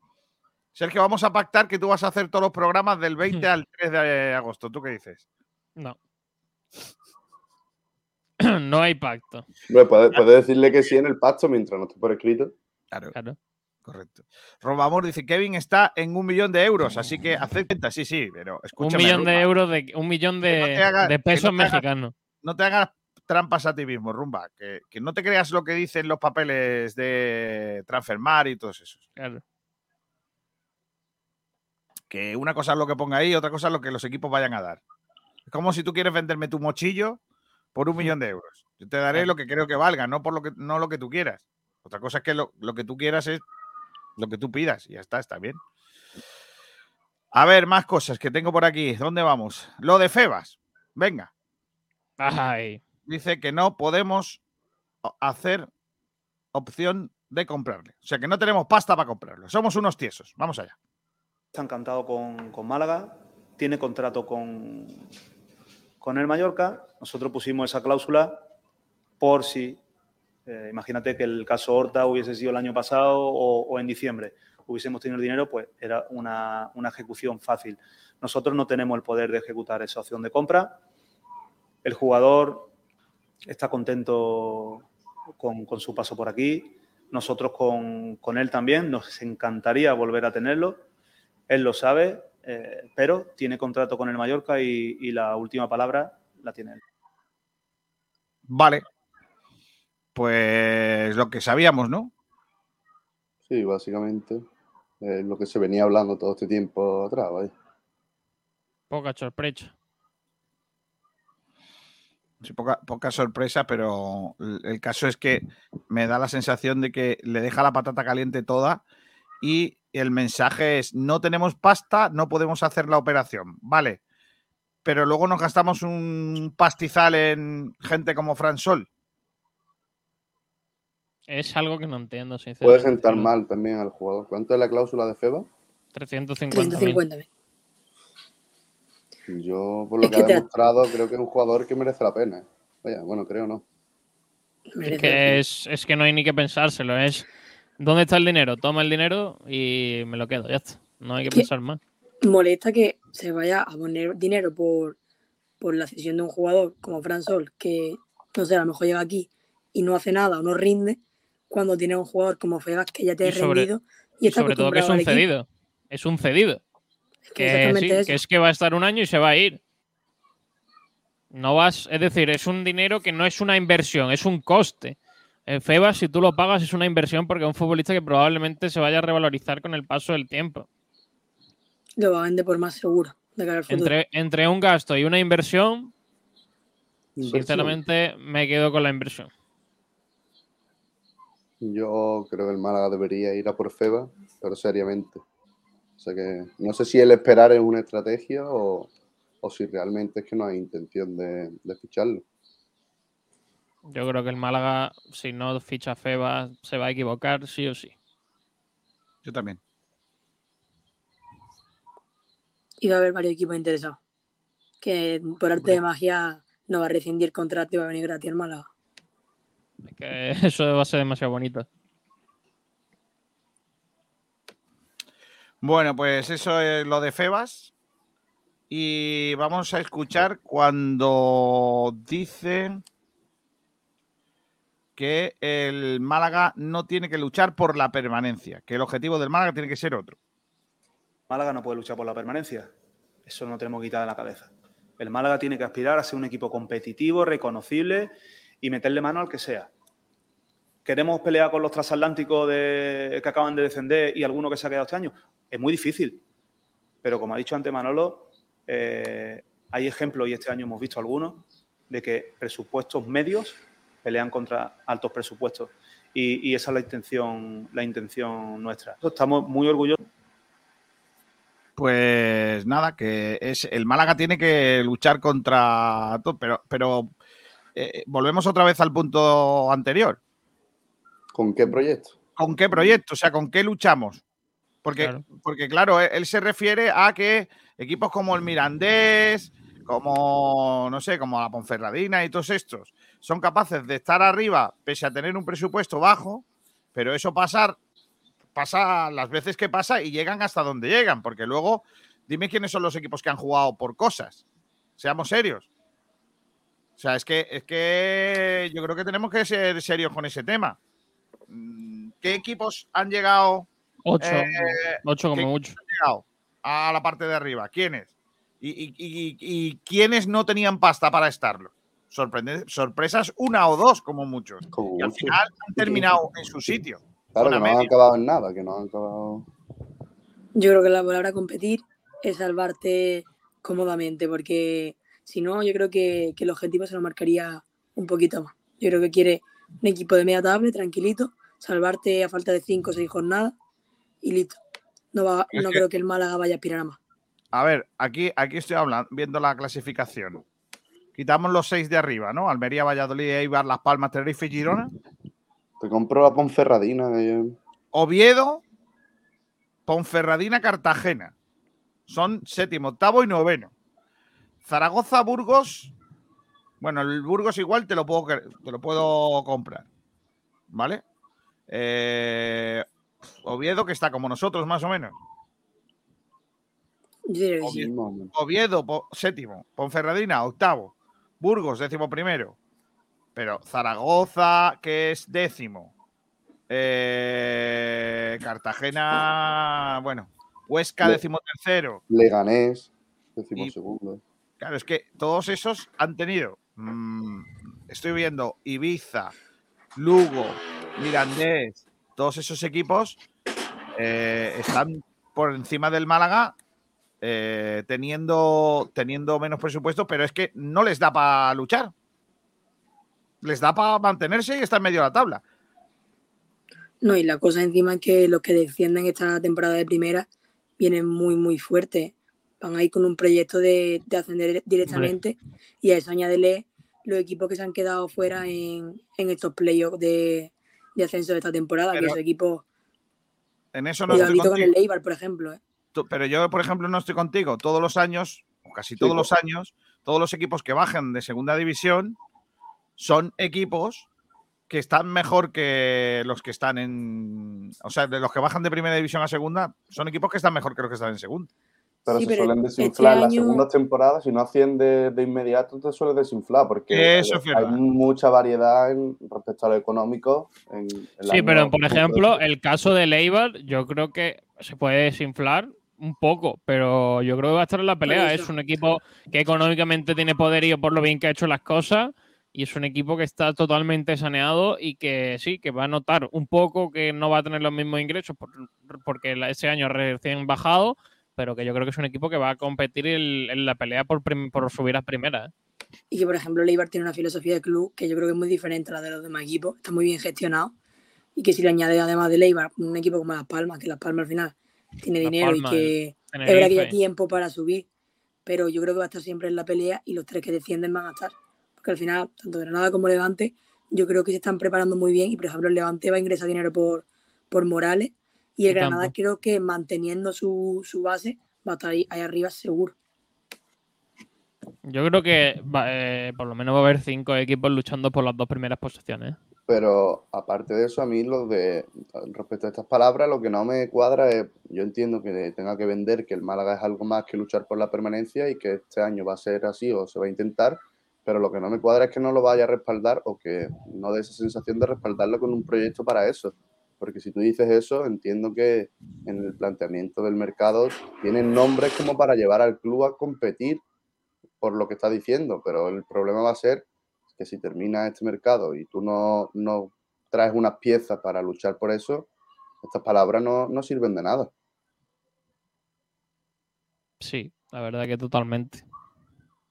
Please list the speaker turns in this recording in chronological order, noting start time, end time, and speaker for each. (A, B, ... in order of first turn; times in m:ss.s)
0:00.8-0:05.2 A
0:08.4-0:09.4 B
0:09.7-0:12.5 C
0:13.8-0:19.5 A
0:18.8-0:22.1 B
0:20.5-0:21.8 A
0:22.4-0:29.0 A
0:29.2-0:29.4 B
0:32.1-0:34.8 A
0:35.5-0:37.2 A
0:37.8-0:43.4 A
0:44.2-0:45.6 A
0:47.3-0:51.3 A
0:52.2-0:52.8 B
0:53.1-0:54.4 A
0:55.0-0:55.7 A
0:56.5-1:00.8 A
1:01.5-1:05.1 D
1:06.0-1:08.4 D
1:09.2-1:09.8 D
1:10.5-1:20.8 D
1:21.8-1:22.7 D
1:23.5-1:24.9 D
1:25.4-1:30.8 D
1:31.5-1:36.8 D
1:38.5-1:38.8 A
1:40.2-1:42.1 A
1:43.5-1:44.5 C
1:45.0-1:47.5 C
1:48.9-1:49.7 B
1:52.4-1:58.8 A
1:59.4-2:04.0 A
2:04.8-2:08.9 A
2:11.3-2:13.3 B
2:12.6-2:15.5 C
2:16.0-2:17.0 B
2:16.5-2:17.3 E
2:19.3-2:23.6 C
2:20.0-2:20.4 E
2:24.7-2:25.4 E
2:24.8-2:27.3 B
2:27.8-2:31.8 B
2:32.2-2:35.0 E
2:35.6-2:41.0 E
2:41.5-2:45.2 E
2:43.2-2:43.7 B
2:44.2-2:46.6 B
2:47.3-2:48.2 E
2:47.4-2:49.6 B
2:51.3-2:55.0 B
2:55.5-3:00.7 B
3:02.0-3:03.9 E
3:03.7-3:05.9 B
3:07.2-3:07.8 C
3:07.3-3:09.3 B
3:11.6-3:15.2 C
3:16.0-3:18.9 C
3:19.4-3:22.2 C
3:23.9-3:27.9 B
3:29.2-3:29.6 A
3:32.8-3:34.0 E
3:34.8-3:38.7 E
3:39.8-3:41.7 B
3:45.6-3:47.7 A
3:48.7-3:52.8 A
3:55.0-4:00.2 A
4:01.3-4:02.7 D
4:03.2-4:09.7 D
4:10.8-4:16.2 D
4:17.0-4:30.0 D
4:31.8-4:37.1 A
4:37.8-4:40.2 A
4:41.4-4:42.2 C
4:42.4-4:44.2 A
4:44.8-4:57.8 A
4:45.0-4:45.2 B
4:58.6-5:04.4 A
5:05.0-5:05.7 A
5:07.0-5:10.8 A
5:11.5-5:13.7 A
5:14.1-5:15.8 B
5:14.2-5:27.9 A
5:24.7-5:26.1 C
5:27.3-5:29.5 C
5:30.6-5:43.6 E
5:44.2-5:44.6 E
5:45.1-5:47.0 E
5:45.5-5:45.8 A
5:47.5-5:50.4 A
5:51.2-5:54.9 A
5:55.8-5:57.6 C
5:57.9-5:58.6 A
5:59.9-6:01.3 A
6:02.1-6:03.7 A
6:04.6-6:05.9 A
6:06.8-6:09.9 A
6:10.7-6:11.0 A
6:11.7-6:12.8 A
6:13.4-6:15.2 A
6:17.3-6:17.9 E
6:17.6-6:18.3 C
6:18.3-6:22.6 A
6:23.4-6:25.9 A
6:26.7-6:32.0 A
6:32.1-6:34.2 C
6:34.6-6:39.3 A
6:40.0-6:43.2 A
6:43.9-6:46.6 A
6:47.2-6:51.9 A
6:53.4-6:55.4 A
6:57.0-7:00.3 E
7:00.8-7:12.6 E
7:13.7-7:14.7 A
7:14.1-7:14.3 C
7:14.1-7:15.6 E
7:15.9-7:22.2 A
7:19.0-7:19.3 C
7:23.0-7:24.1 A
7:24.7-7:31.5 A
7:32.1-7:42.4 C
7:32.1-7:33.6 E
7:36.9-7:37.8 A
7:41.3-8:05.5 B
7:48.1-7:48.5 E
8:06.1-8:10.7 E
8:11.4-8:17.9 E
8:15.2-8:17.0 B
8:18.5-8:32.9 E
8:28.7-8:29.1 B
8:34.9-8:39.4 B
8:39.7-9:03.8 C
9:04.6-9:12.3 C
9:12.8-9:14.5 C
9:17.2-9:18.8 B